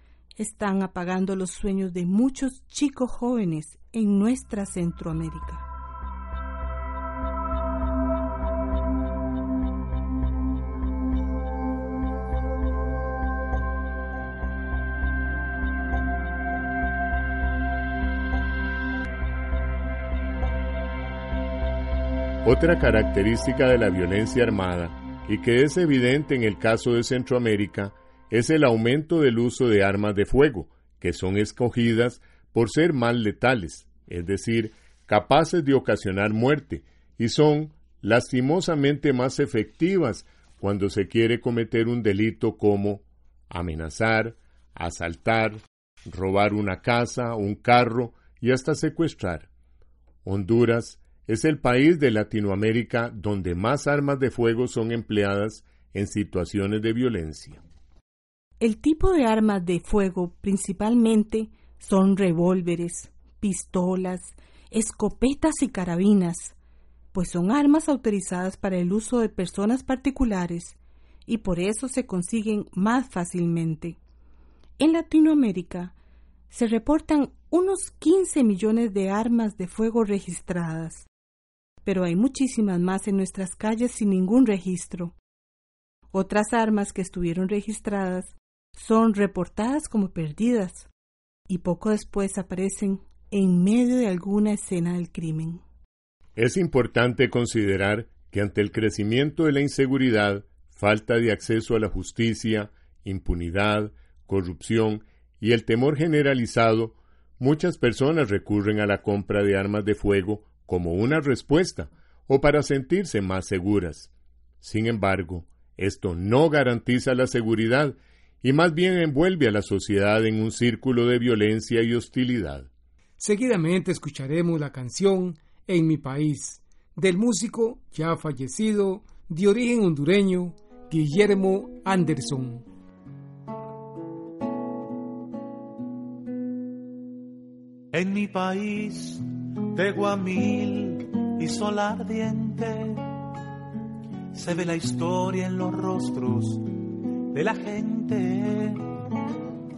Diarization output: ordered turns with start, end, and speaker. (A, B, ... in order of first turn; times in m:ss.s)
0:00.4-0:05.6 A
0:22.4-0:49.5 B
0:50.2-0:57.6 B
0:58.6-1:06.5 A
1:07.1-1:10.8 A
1:11.3-1:14.0 A
1:14.8-1:15.9 A
1:16.5-1:21.1 A
1:21.8-1:25.1 A
1:26.1-1:30.9 A
1:31.5-1:35.6 A
1:36.4-1:54.1 B
1:54.6-2:02.7 B
2:03.2-2:12.6 C
2:17.9-2:23.2 D
2:24.3-2:28.9 D